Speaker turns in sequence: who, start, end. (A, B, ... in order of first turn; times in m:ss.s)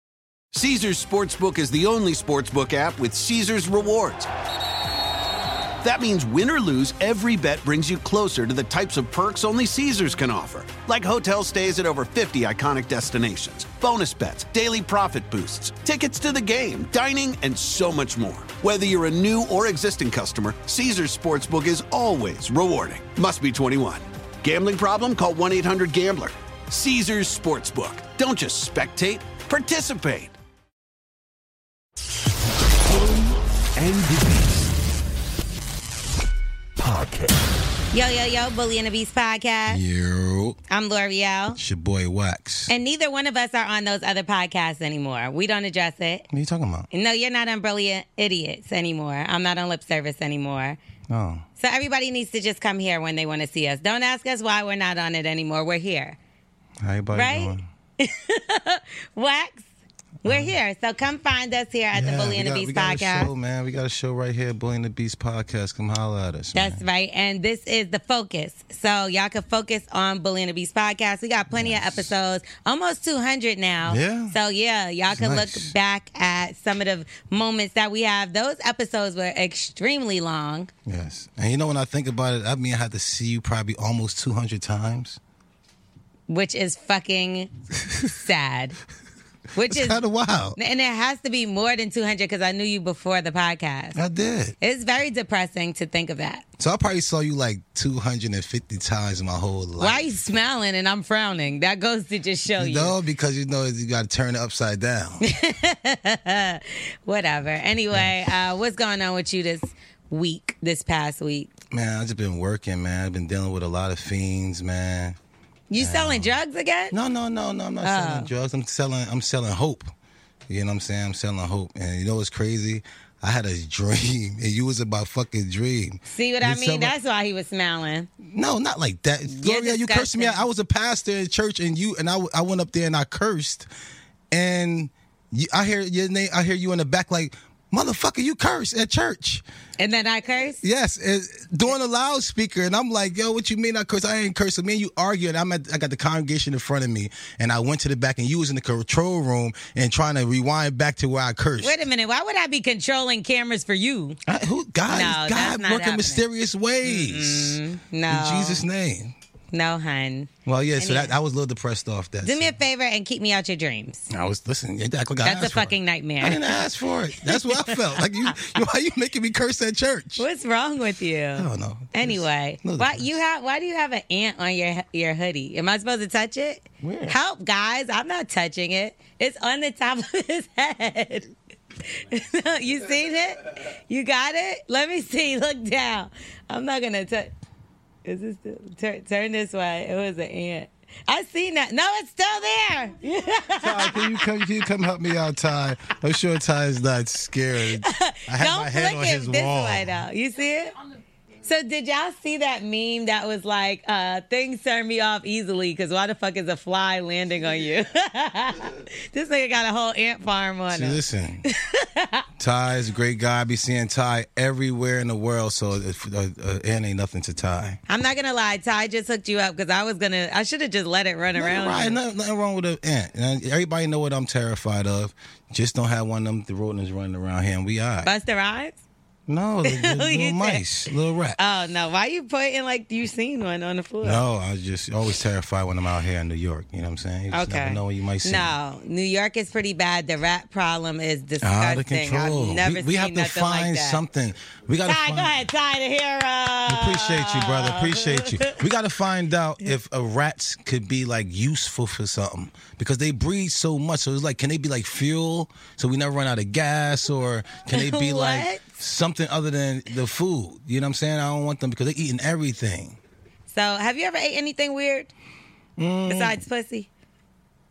0:00.5-0:04.3 A
0:05.8-0:30.3 A
0:32.9-0:34.7 A
0:36.8-0:37.3 A
0:37.9-0:39.8 B
0:39.7-0:40.6 C
0:40.7-0:41.6 B
0:41.5-0:42.7 C
0:42.7-0:46.2 B
0:46.3-0:46.9 C
0:46.9-0:50.8 B
0:51.1-0:51.4 C
0:51.6-0:56.2 B
0:56.8-0:57.6 C
0:57.1-0:59.6 B
1:00.2-1:00.5 C
1:00.2-1:03.3 B
1:01.9-1:06.8 C
1:06.5-1:20.7 B
1:11.5-1:12.1 C
1:13.8-1:14.4 C
1:15.1-1:15.7 C
1:20.8-1:25.2 C
1:26.3-1:28.8 B
1:29.5-1:30.0 B
1:29.6-1:30.6 C
1:30.6-1:34.0 B
1:33.9-1:34.6 C
1:34.6-1:36.4 B
1:36.6-1:40.1 C
1:39.8-1:43.0 B
1:42.6-1:45.2 C
1:45.2-1:51.5 B
1:47.9-1:48.2 C
1:51.7-1:55.2 C
1:55.7-1:56.9 B
1:55.8-1:56.3 C
1:56.9-1:59.9 C
1:57.8-1:58.3 B
2:00.5-2:06.9 C
2:06.1-2:08.1 B
2:08.2-2:13.7 C
2:09.3-2:10.4 B
2:14.3-2:19.4 C
2:19.8-2:20.6 B
2:20.6-2:31.8 C
2:31.6-2:34.2 B
2:34.2-2:39.1 C
2:34.9-2:36.2 B
2:36.8-2:38.6 B
2:39.5-2:41.1 B
2:40.4-2:42.5 C
2:42.2-2:44.1 B
2:44.1-2:50.2 C
2:45.2-2:46.6 B
2:47.2-2:48.3 B
2:50.2-3:01.3 B
2:51.3-2:53.1 C
2:56.8-2:57.2 C
3:01.8-3:07.3 B
3:08.0-3:14.3 B
3:13.5-3:20.0 C
3:17.8-3:20.7 B
3:21.4-3:32.3 B
3:30.7-3:31.4 C
3:32.4-3:37.8 C
3:37.9-3:42.0 B
3:41.4-3:48.1 C
3:48.0-3:48.8 B
3:49.3-3:51.4 C
3:49.6-3:50.6 B
3:51.4-3:54.2 B
3:54.0-3:58.5 C
3:57.3-4:04.0 B
4:01.4-4:05.4 C
4:04.8-4:08.6 B
4:06.7-4:23.0 C
4:17.7-4:18.6 B
4:23.5-4:25.1 B
4:25.8-4:26.4 C
4:26.0-4:26.9 B